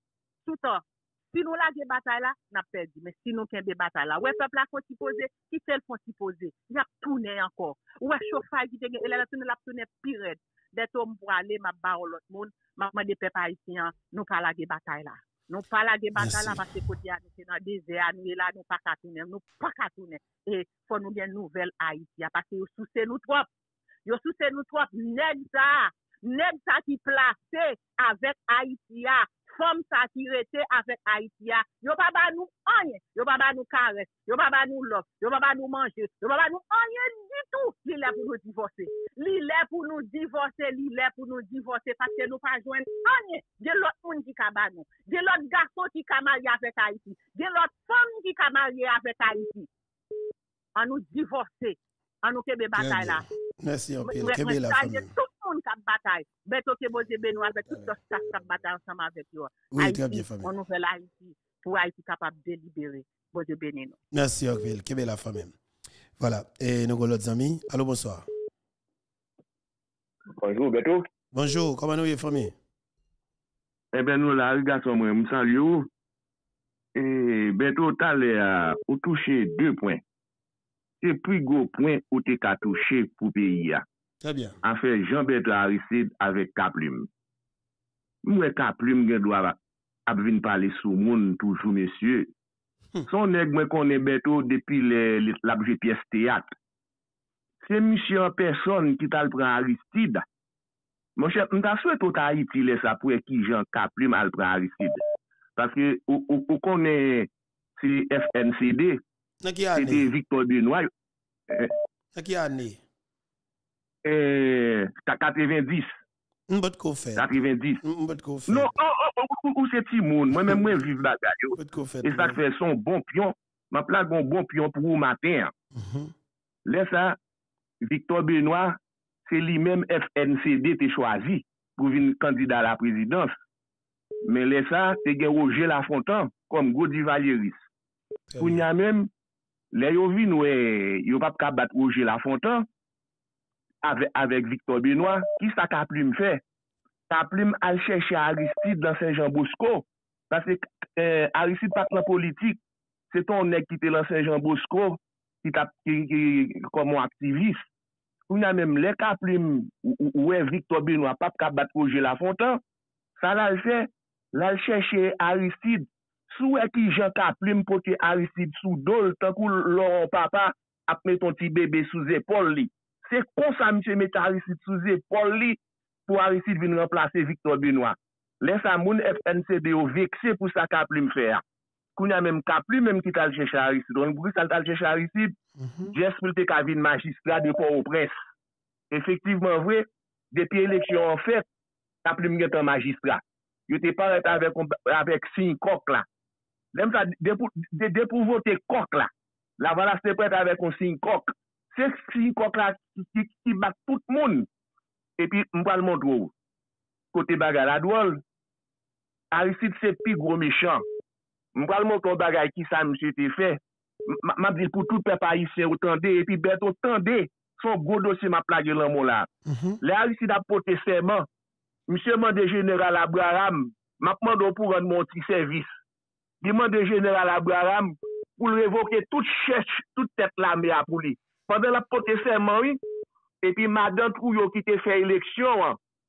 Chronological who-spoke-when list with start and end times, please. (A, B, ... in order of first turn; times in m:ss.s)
0:00.4-0:23.5 A
0:16.2-0:16.7 B
0:24.1-0:49.7 A
0:50.8-0:53.3 A
0:52.8-0:55.1 B
0:54.0-1:04.0 A
0:59.7-1:00.5 B
1:04.1-1:05.6 B
1:06.2-1:08.3 B
1:10.4-1:11.1 C
1:11.3-1:12.5 B
1:13.9-1:15.9 C
1:17.0-1:20.0 C
1:21.0-1:23.8 C
1:24.2-1:24.6 B
1:24.6-1:27.1 C
1:28.2-1:32.3 C
1:33.1-1:36.5 C
1:37.6-1:40.2 C
1:41.2-1:45.0 C
1:45.6-1:49.0 C
1:49.4-1:50.1 B
1:49.8-1:50.9 C
1:52.2-1:52.8 B
1:54.0-1:56.0 C
1:56.5-1:57.3 B
1:57.2-1:57.8 C
1:57.8-1:58.7 B
1:58.5-2:05.5 C
2:00.4-2:00.8 B
2:01.6-2:02.4 B
2:05.8-2:06.1 B
2:06.7-2:07.2 C
2:07.8-2:13.3 C
2:14.3-2:17.7 C
2:18.3-2:18.6 B
2:18.4-2:19.1 C
2:19.7-2:22.7 C
2:23.8-2:26.4 C
2:27.1-2:32.6 C
2:33.1-2:37.6 C
2:38.3-2:42.6 C
2:43.2-3:01.4 C
3:02.0-3:05.4 C
3:05.6-3:06.0 B
3:05.9-3:08.2 C
3:08.9-3:11.4 C
3:12.0-3:16.1 C
3:16.7-3:24.5 C
3:25.2-3:26.3 C
3:27.1-3:28.2 C
3:29.3-3:30.8 C
3:31.6-3:39.3 C
3:39.5-3:39.8 B
3:39.8-3:41.3 C
3:41.9-3:45.8 C
3:46.4-3:52.8 C
3:53.4-3:55.8 C